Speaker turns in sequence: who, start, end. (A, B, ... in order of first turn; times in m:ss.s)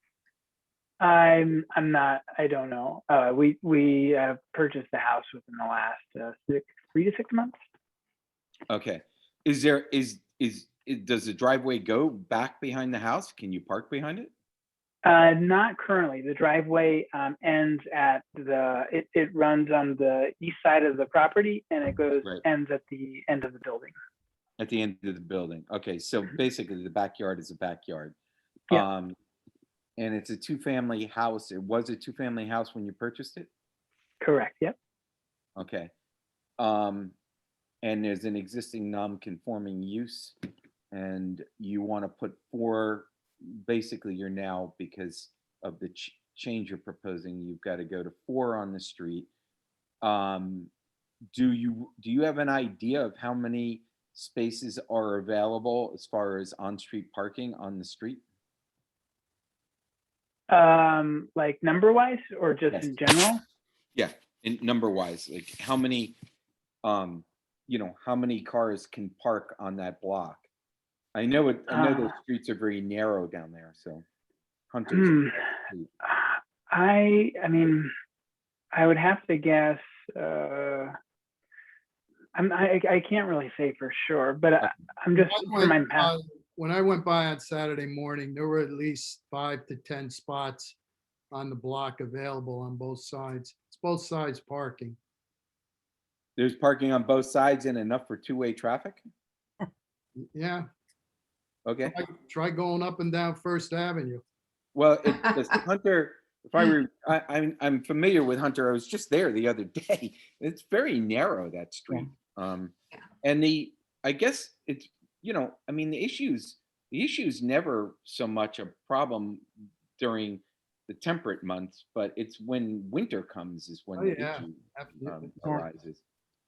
0:01.0-0:07.5 A
0:08.7-0:14.3 B
0:15.0-0:23.9 A
0:24.6-0:28.2 B
0:28.7-0:29.2 B
0:30.0-0:33.5 B
0:34.2-0:34.8 A
0:35.6-0:35.9 B
0:36.6-0:37.1 B
0:37.8-0:40.4 B
0:40.9-0:49.3 B
0:50.0-0:50.7 B
0:51.3-0:58.2 B
1:00.5-1:03.4 A
1:04.0-1:06.2 B
1:06.8-1:10.4 B
1:11.2-1:14.0 B
1:11.7-1:12.1 A
1:14.7-1:15.9 B
1:14.9-1:15.4 A
1:16.0-1:17.9 A
1:18.7-1:21.0 A
1:22.4-1:26.1 A
1:25.2-1:30.8 C
1:31.3-1:35.0 C
1:36.4-1:39.0 B
1:40.2-1:40.7 C
1:41.7-1:42.0 B
1:41.9-1:44.2 C
1:44.8-1:52.7 B
1:53.2-1:59.4 B
2:00.0-2:06.0 B
2:04.0-2:05.6 C